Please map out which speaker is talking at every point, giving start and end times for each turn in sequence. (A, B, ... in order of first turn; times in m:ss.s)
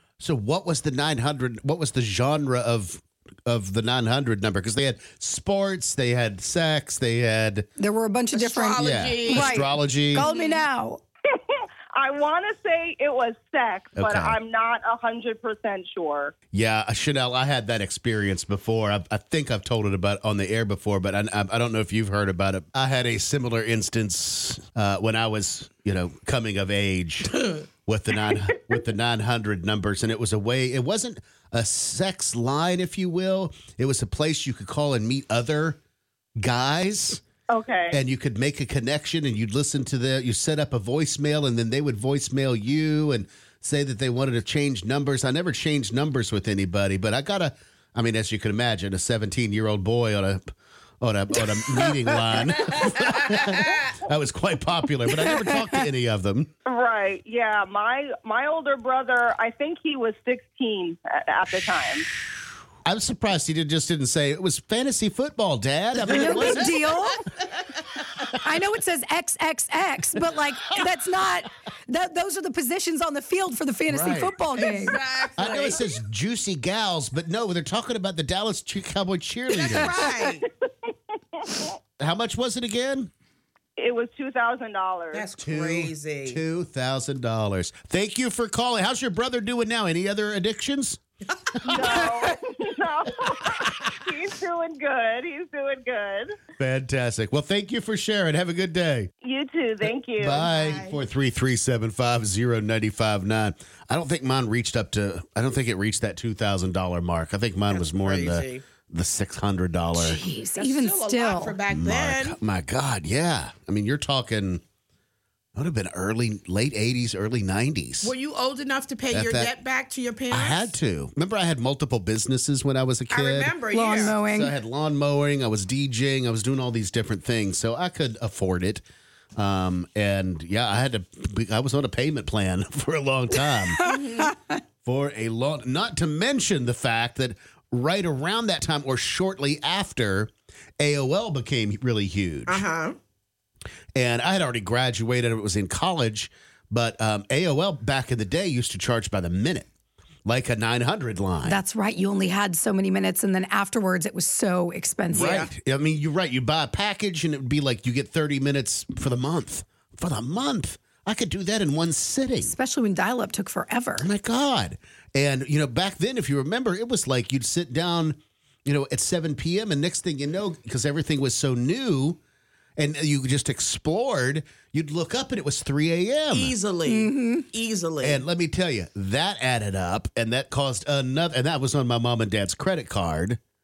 0:00.2-0:07.7 A
0:07.8-0:11.0 B
0:08.3-0:09.7 C
0:08.8-0:10.3 A
0:10.2-0:10.6 C
0:11.3-0:16.3 D
0:14.0-0:14.4 A
0:16.5-0:35.8 A
0:36.4-0:37.2 A
0:37.5-0:38.0 D
0:37.9-0:50.4 A
0:51.0-0:56.5 A
0:55.3-0:55.8 B
0:56.6-1:02.0 D
1:02.8-1:06.9 A
1:06.1-1:07.3 B
1:08.4-1:15.0 B
1:13.9-1:14.4 A
1:14.5-1:15.8 C
1:15.4-1:20.0 A
1:19.5-1:20.4 C
1:20.8-1:21.7 D
1:22.0-1:23.1 A
1:23.8-1:25.2 D
1:25.1-1:26.4 C
1:25.4-1:31.0 A
1:31.6-1:32.1 A
1:31.6-1:36.4 D
1:36.6-1:39.1 A
1:39.2-1:40.5 D
1:40.2-1:50.2 A
1:40.4-1:41.0 C
1:47.7-1:48.6 C
1:49.9-1:51.6 B
1:50.5-1:52.4 C
1:51.7-1:54.6 A
1:55.6-1:58.1 A
1:58.0-2:00.7 C
1:59.1-1:59.5 A
2:00.3-2:08.8 A
2:03.1-2:04.2 C
2:03.7-2:04.6 B
2:09.4-2:13.8 A
2:13.8-2:14.3 C
2:14.8-2:22.6 A
2:22.5-2:23.0 C
2:23.9-2:29.7 A
2:30.2-2:31.6 A
2:31.4-2:35.4 B
2:35.1-2:35.5 C
2:35.1-2:42.5 A
2:42.4-2:44.1 B
2:44.0-2:52.2 A
2:52.8-2:56.5 A
2:56.3-2:58.2 C
2:56.8-2:57.4 B
2:58.0-3:03.4 A